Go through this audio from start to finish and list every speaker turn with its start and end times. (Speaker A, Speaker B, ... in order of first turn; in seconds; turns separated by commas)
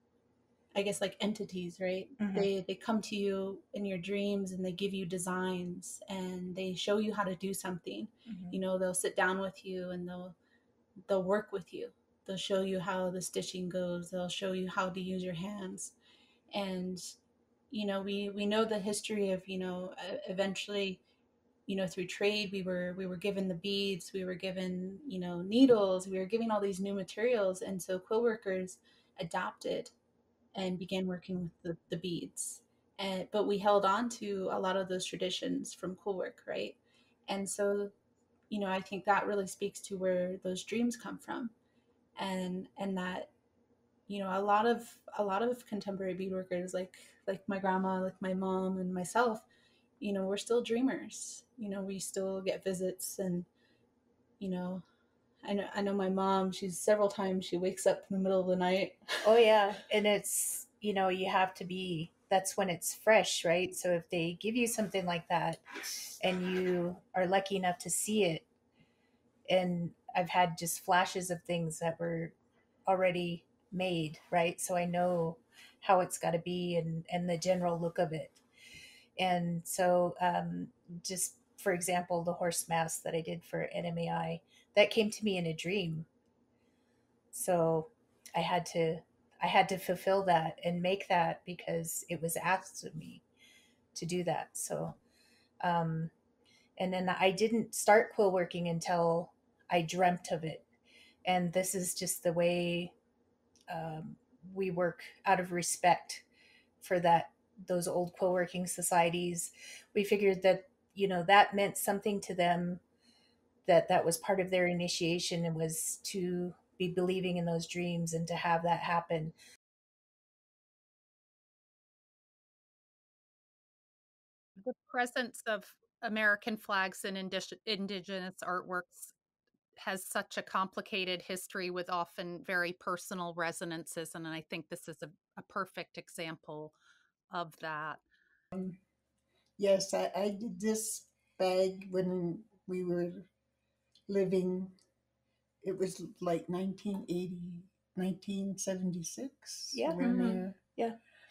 Speaker A: 0.7-10.3, Speaker B: 2.2-2.5, Speaker B: 8.3-8.6, Speaker A: 11.1-15.9, Speaker A: 16.5-17.1, Speaker A: 17.7-21.0, Speaker A: 21.7-29.9, Speaker A: 30.5-37.9, Speaker A: 38.5-41.5, Speaker A: 42.1-43.3, Speaker A: 44.1-49.4, Speaker A: 50.0-53.5, Speaker A: 54.4-54.8, Speaker A: 55.4-59.3, Speaker B: 59.2-65.6, Speaker B: 66.2-68.5, Speaker B: 69.5-72.3, Speaker B: 72.8-78.4, Speaker B: 79.2-86.1, Speaker B: 87.3-93.2, Speaker B: 93.9-95.0, Speaker B: 95.6-96.1, Speaker B: 96.8-100.7, Speaker B: 101.2-102.9, Speaker B: 103.7-106.2, Speaker B: 106.8-112.8, Speaker B: 113.7-119.3, Speaker C: 124.6-129.1, Speaker C: 129.8-136.7, Speaker C: 137.3-138.0, Speaker D: 139.6-143.3, Speaker D: 144.1-144.7, Speaker D: 145.6-150.5, Speaker B: 149.7-151.0, Speaker A: 150.0-150.4